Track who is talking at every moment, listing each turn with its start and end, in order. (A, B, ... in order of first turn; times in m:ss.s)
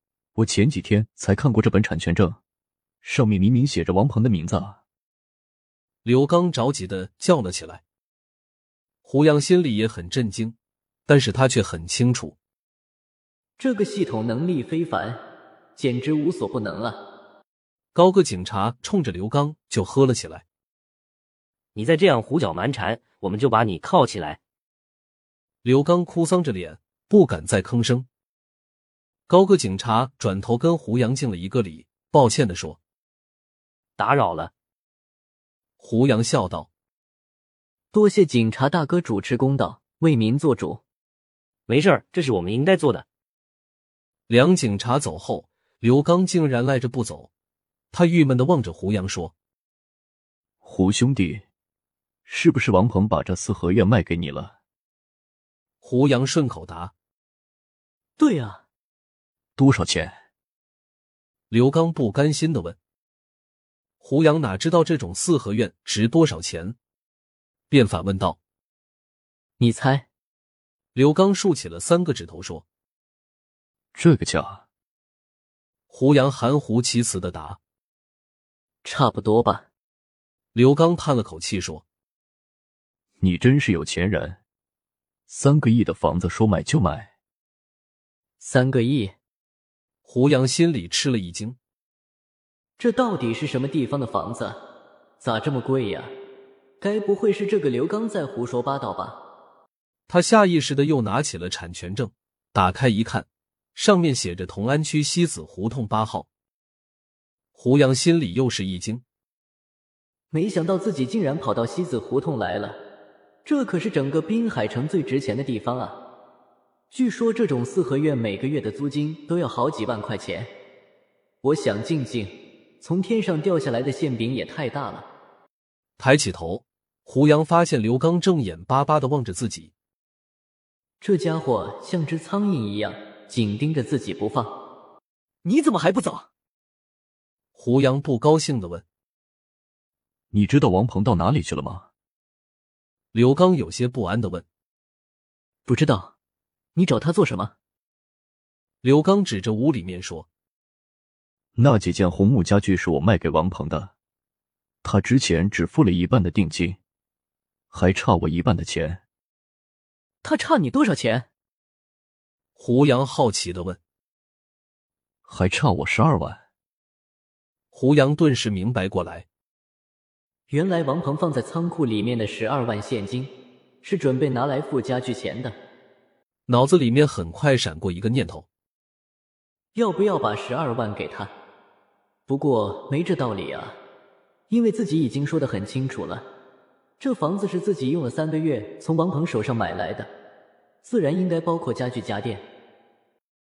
0:00.4-0:02.4 A
0:03.0-0:04.8 A
0:06.0-0:07.8 B
0:09.0-0:10.5 B
0:11.1-0:12.4 B
0:13.6-0:15.2 C
0:15.8-0:17.0 C
0:17.9-0:20.4 B
0:21.7-0:24.4 D
0:25.6-0:28.0 B
0:29.3-0:32.8 B
0:34.0-0:34.5 D
0:35.8-0:36.7 B
0:37.9-0:40.8 C
0:41.7-0:43.0 D
0:44.3-0:47.3 B
0:47.9-0:49.3 B
0:50.6-0:51.4 A
0:52.2-0:54.5 A
0:55.8-0:56.9 B
0:58.2-0:58.6 C
0:59.6-1:00.2 A
1:01.5-1:02.8 B
1:04.0-1:06.8 B
1:07.7-1:08.4 B
1:09.6-1:10.0 C
1:10.9-1:12.6 B
1:13.9-1:14.6 A
1:15.9-1:17.6 B
1:18.8-1:19.6 C
1:20.5-1:21.8 B
1:23.2-1:24.4 A
1:25.3-1:27.1 A
1:28.4-1:29.1 C
1:30.0-1:31.6 B
1:32.8-1:34.6 C
1:35.2-1:36.1 C
1:36.8-1:39.2 C
1:40.1-1:46.3 B
1:47.5-1:49.0 B
1:50.3-1:52.8 C
1:53.4-1:56.0 C
1:56.9-2:00.5 C
2:01.4-2:05.1 C
2:06.0-2:09.7 B
2:11.0-2:14.5 C
2:15.4-2:16.3 C
2:17.5-2:18.8 B
2:20.3-2:21.9 A
2:23.1-2:24.4 B
2:25.6-2:26.1 C
2:26.7-2:27.5 C
2:28.8-2:30.3 B
2:31.6-2:33.9 A
2:34.8-2:36.8 A
2:37.7-2:39.0 A
2:40.2-2:41.3 C
2:42.6-2:43.8 B
2:45.2-2:46.4 A
2:47.7-2:49.2 B
2:50.5-2:55.5 C
2:56.5-2:58.4 B
2:59.7-3:01.3 C
3:02.3-3:03.8 C
3:04.5-3:06.2 C
3:07.0-3:10.1 C
3:10.8-3:12.4 C